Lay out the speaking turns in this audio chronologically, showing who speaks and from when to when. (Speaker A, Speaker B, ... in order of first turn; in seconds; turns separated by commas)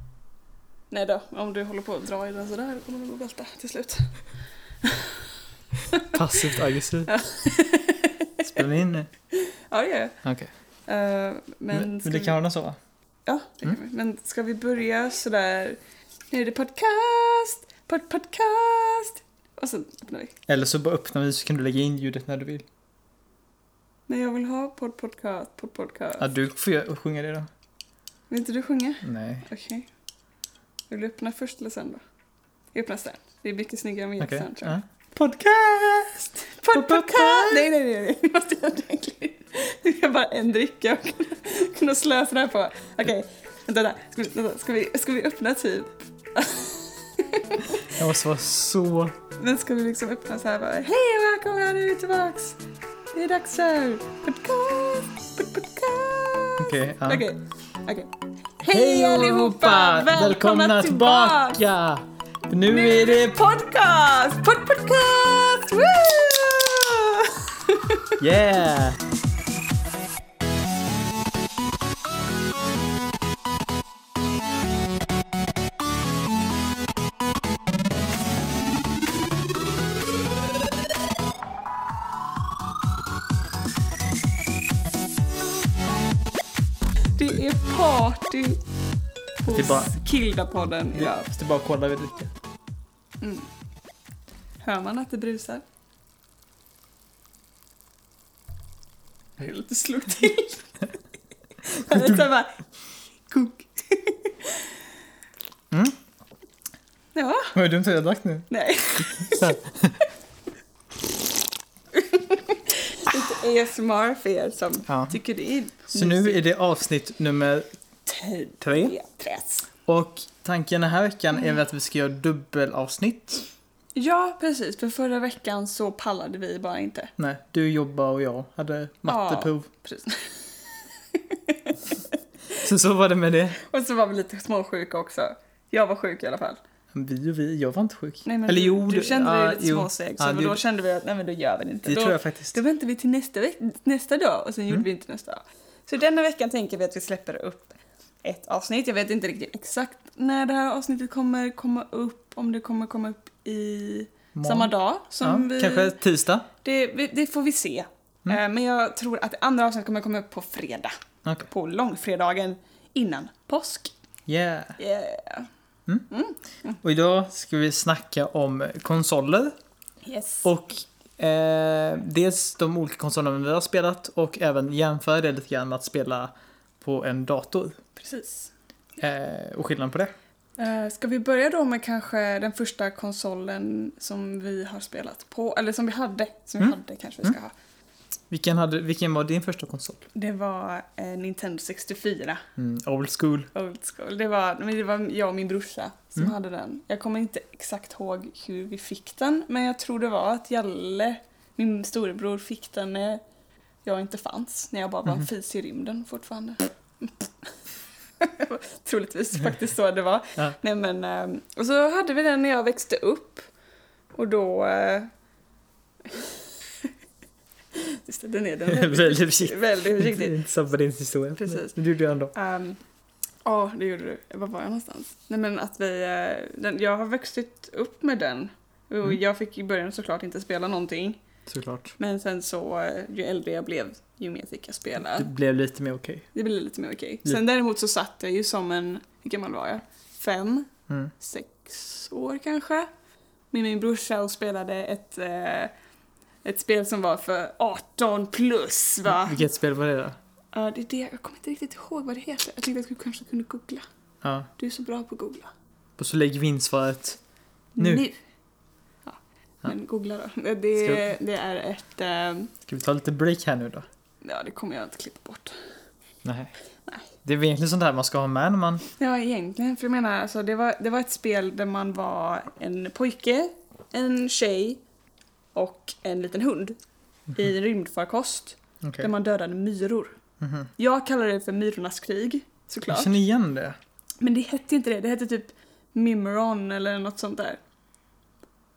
Speaker A: 0.9-4.2, Speaker A: 4.8-5.2, Speaker A: 5.9-8.7, Speaker B: 6.0-7.1, Speaker B: 8.5-9.1, Speaker A: 9.3-10.2, Speaker B: 10.2-10.5, Speaker A: 10.9-12.4, Speaker B: 11.7-12.8, Speaker A: 13.3-15.8, Speaker A: 16.3-20.4, Speaker B: 20.5-22.6, Speaker A: 24.1-26.3, Speaker B: 26.2-27.5, Speaker A: 28.3-29.9, Speaker B: 29.0-29.5, Speaker A: 30.9-32.0, Speaker A: 32.7-34.8, Speaker B: 34.2-37.7, Speaker A: 36.4-48.0, Speaker B: 47.9-49.2, Speaker A: 49.4-52.6, Speaker A: 53.1-58.1, Speaker B: 56.6-57.2, Speaker A: 58.6-61.6, Speaker B: 58.6-63.4, Speaker A: 62.7-68.1, Speaker B: 68.2-69.0, Speaker A: 87.2-88.6, Speaker A: 89.4-91.3, Speaker B: 89.5-90.0, Speaker B: 90.9-92.3, Speaker A: 93.2-93.5, Speaker A: 94.6-95.6, Speaker A: 99.4-100.9, Speaker A: 101.6-102.6, Speaker B: 101.9-102.2, Speaker A: 103.3-104.8, Speaker B: 105.7-106.0, Speaker A: 107.1-107.5, Speaker B: 107.5-110.0, Speaker A: 108.5-109.6, Speaker A: 111.9-116.4, Speaker B: 114.9-115.2, Speaker B: 115.9-117.7, Speaker A: 118.0-119.7, Speaker B: 118.6-118.9, Speaker B: 119.9-123.5, Speaker A: 123.9-127.1, Speaker B: 127.2-129.7, Speaker A: 129.1-132.7, Speaker B: 132.6-133.6, Speaker A: 133.6-136.6, Speaker B: 136.9-140.6, Speaker A: 138.2-155.9, Speaker B: 141.8-142.6, Speaker B: 154.3-156.5, Speaker A: 156.6-160.9, Speaker A: 161.5-163.9, Speaker B: 164.3-164.8, Speaker A: 164.8-165.5, Speaker A: 166.1-166.8, Speaker B: 166.8-169.5, Speaker A: 170.0-170.5, Speaker B: 170.4-177.8, Speaker A: 177.9-178.5, Speaker B: 179.0-180.1, Speaker A: 180.6-187.5, Speaker B: 186.6-187.3, Speaker B: 188.3-190.1, Speaker A: 190.1-192.4, Speaker B: 192.6-193.5, Speaker A: 193.5-203.2, Speaker A: 203.8-207.5, Speaker A: 208.2-213.4, Speaker A: 214.1-215.1, Speaker A: 216.1-216.9, Speaker A: 217.7-220.4, Speaker B: 218.7-222.3, Speaker A: 221.4-221.8, Speaker A: 222.3-222.8, Speaker A: 223.4-231.2, Speaker B: 231.5-231.9, Speaker A: 232.0-235.3, Speaker B: 235.0-236.3, Speaker A: 236.3-242.9, Speaker A: 243.5-245.7, Speaker A: 246.4-249.4, Speaker B: 249.1-250.2, Speaker A: 250.5-253.8, Speaker B: 254.2-254.5, Speaker A: 254.6-255.5, Speaker B: 256.0-257.2, Speaker A: 257.8-258.2, Speaker B: 257.8-258.0, Speaker A: 259.1-262.5, Speaker B: 260.8-261.1, Speaker B: 262.6-263.9, Speaker A: 264.2-265.6, Speaker B: 266.2-266.5, Speaker B: 267.2-268.8, Speaker A: 269.0-274.8, Speaker A: 275.6-276.8, Speaker A: 277.3-280.1, Speaker B: 278.8-279.1, Speaker B: 280.4-280.7, Speaker A: 280.8-283.1, Speaker B: 282.9-283.8, Speaker A: 284.2-287.6